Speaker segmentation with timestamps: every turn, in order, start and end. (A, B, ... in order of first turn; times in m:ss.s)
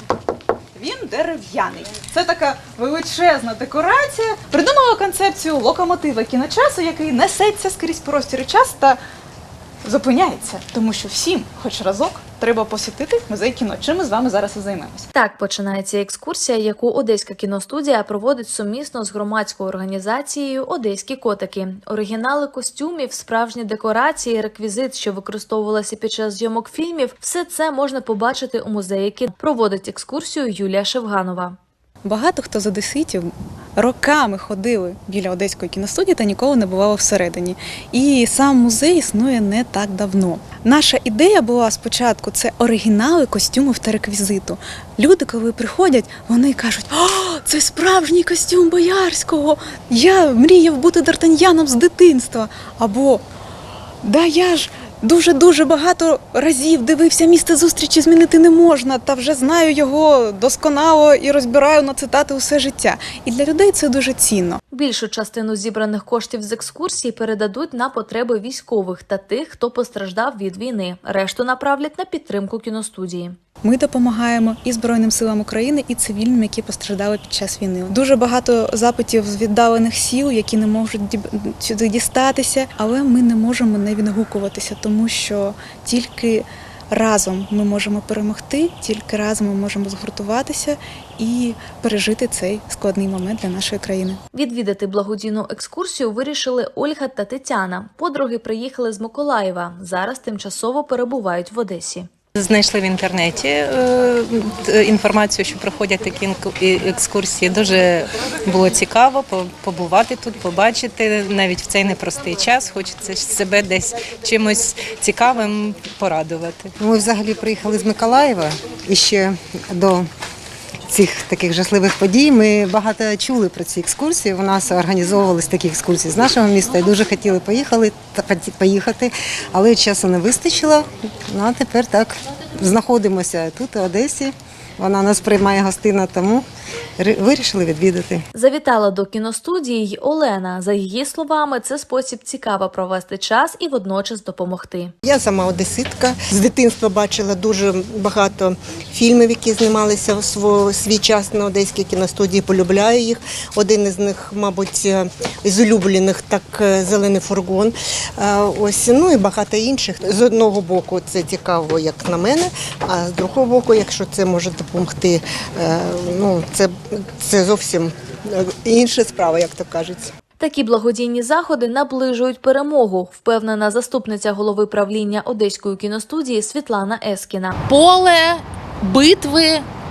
0:00.7-0:09.0 A
0:09.8-0:15.1 A
0:15.1-0:31.6 B
0:32.0-0:53.2 A
0:54.0-1:04.6 A
1:04.7-1:13.4 B
1:13.6-1:34.2 A
1:34.3-1:42.1 B
1:42.4-1:56.7 C
1:56.8-2:00.1 D
2:00.9-2:16.4 D
2:17.0-2:18.2 D
2:18.3-2:24.9 B
2:25.0-2:50.1 E
2:50.4-2:57.6 B
2:57.7-2:59.6 F